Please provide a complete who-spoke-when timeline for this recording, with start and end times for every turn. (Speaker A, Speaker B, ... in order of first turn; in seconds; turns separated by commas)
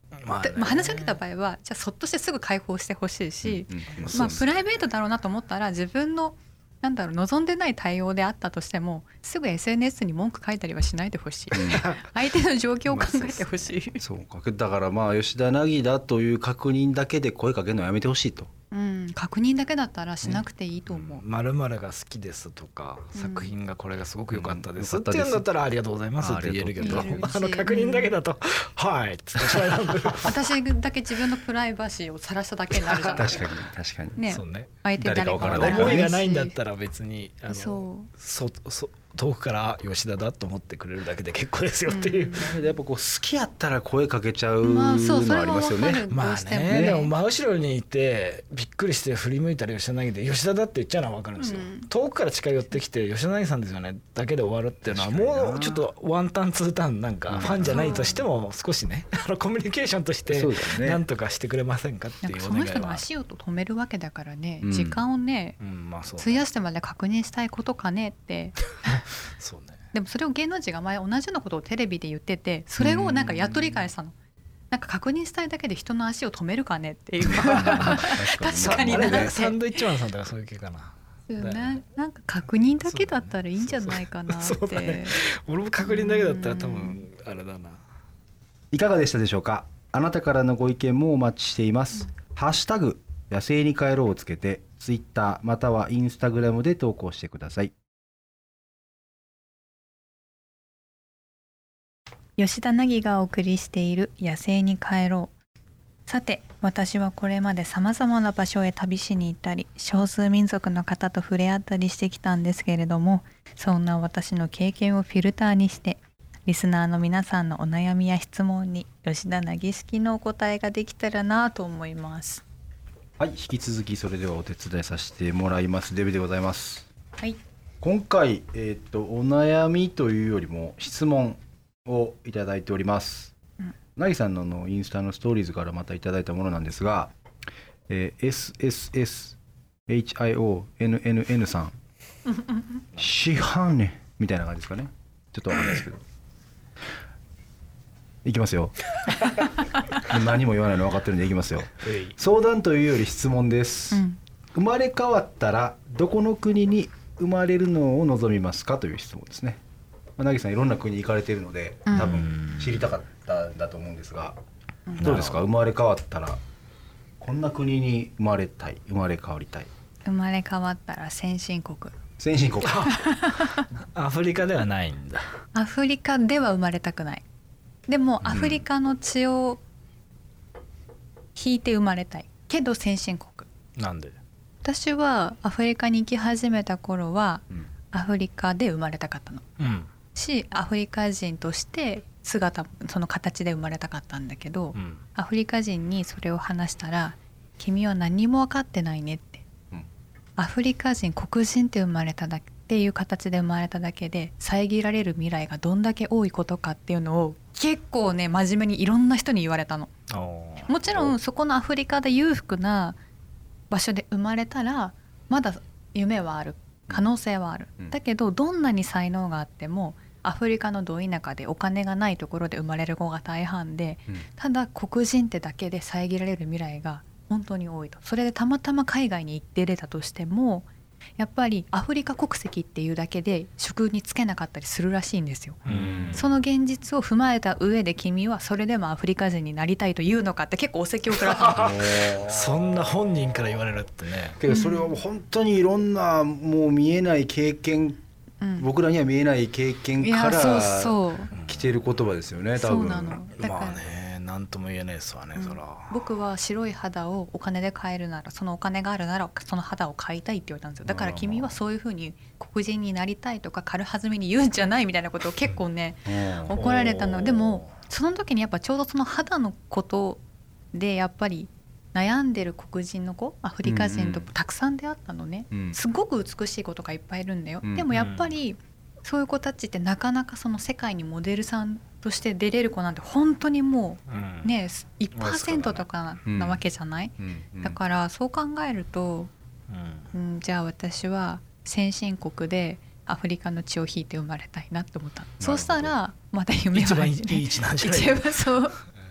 Speaker A: 0.2-1.2, Speaker B: 0.4-14.0, Speaker C: 3.4-4.5, Speaker A: 4.0-4.3, Speaker C: 11.5-11.8, Speaker A: 11.5-12.3, Speaker A: 12.8-13.8, Speaker C: 14.0-18.5, Speaker B: 18.7-21.2, Speaker A: 20.9-30.4, Speaker B: 23.1-23.5, Speaker C: 24.3-25.4, Speaker C: 26.2-27.3, Speaker B: 26.8-28.1, Speaker B: 30.2-33.4, Speaker A: 32.7-33.2, Speaker C: 33.1-34.2, Speaker B: 34.1-36.5, Speaker A: 34.2-34.7, Speaker C: 35.0-36.0, Speaker A: 35.4-42.5, Speaker B: 37.5-38.1, Speaker B: 41.9-42.5, Speaker C: 42.4-46.0, Speaker B: 44.6-47.1, Speaker A: 46.1-63.0, Speaker C: 46.7-47.0, Speaker B: 51.4-51.9, Speaker C: 54.9-55.9, Speaker C: 57.3-57.9, Speaker B: 57.4-58.2, Speaker C: 60.3-61.0, Speaker B: 62.2-65.6, Speaker C: 64.6-65.0, Speaker A: 65.6-66.4, Speaker B: 66.2-69.0, Speaker A: 69.4-69.8, Speaker B: 69.9-74.1, Speaker C: 72.8-73.6, Speaker B: 74.7-79.6, Speaker C: 77.2-79.3, Speaker A: 77.2-81.8, Speaker B: 81.3-85.2, Speaker A: 82.8-87.8, Speaker B: 85.8-87.0, Speaker C: 88.7-97.7, Speaker B: 102.4-105.3, Speaker B: 106.1-122.4, Speaker C: 123.2-126.9, Speaker C: 127.8-133.3, Speaker C: 133.9-137.1, Speaker C: 137.9-141.8, Speaker C: 142.9-146.0, Speaker C: 148.2-148.8, Speaker C: 150.0-154.0, Speaker A: 151.8-152.1, Speaker B: 153.9-154.2, Speaker C: 154.5-159.6, Speaker C: 160.2-164.4, Speaker B: 161.9-162.3, Speaker A: 161.9-162.8, Speaker A: 165.0-165.4, Speaker C: 165.0-166.4, Speaker C: 167.2-169.7, Speaker B: 170.0-171.9, Speaker C: 172.2-173.0, Speaker A: 172.6-175.3, Speaker B: 172.8-173.7, Speaker B: 175.5-177.2, Speaker B: 177.9-179.6, Speaker A: 178.2-178.6, Speaker B: 181.3-183.5, Speaker A: 183.8-184.2, Speaker B: 184.6-189.5, Speaker A: 189.6-189.9, Speaker B: 190.1-199.4, Speaker A: 194.7-195.0, Speaker B: 200.4-209.9, Speaker A: 210.1-210.7, Speaker B: 210.7-213.0, Speaker B: 213.7-235.6, Speaker A: 235.6-236.3, Speaker C: 235.7-236.2, Speaker B: 236.1-241.8, Speaker A: 241.4-244.4, Speaker C: 241.5-243.1, Speaker C: 244.4-248.0, Speaker B: 244.5-245.0, Speaker B: 248.4-248.7, Speaker C: 248.6-253.2, Speaker B: 250.0-251.3, Speaker A: 251.3-251.8, Speaker B: 252.6-253.8, Speaker A: 253.4-256.0, Speaker B: 255.3-270.2, Speaker C: 260.9-261.4, Speaker A: 261.0-261.3, Speaker C: 266.1-266.6, Speaker A: 266.5-267.7, Speaker B: 270.7-289.3, Speaker C: 273.6-274.3, Speaker C: 275.5-275.8, Speaker C: 277.6-277.9, Speaker A: 277.9-278.3, Speaker A: 284.1-284.5, Speaker A: 285.1-285.9, Speaker C: 286.2-286.6, Speaker C: 287.2-287.8, Speaker A: 289.7-290.1, Speaker B: 290.1-298.8, Speaker C: 295.4-295.9, Speaker A: 296.7-298.4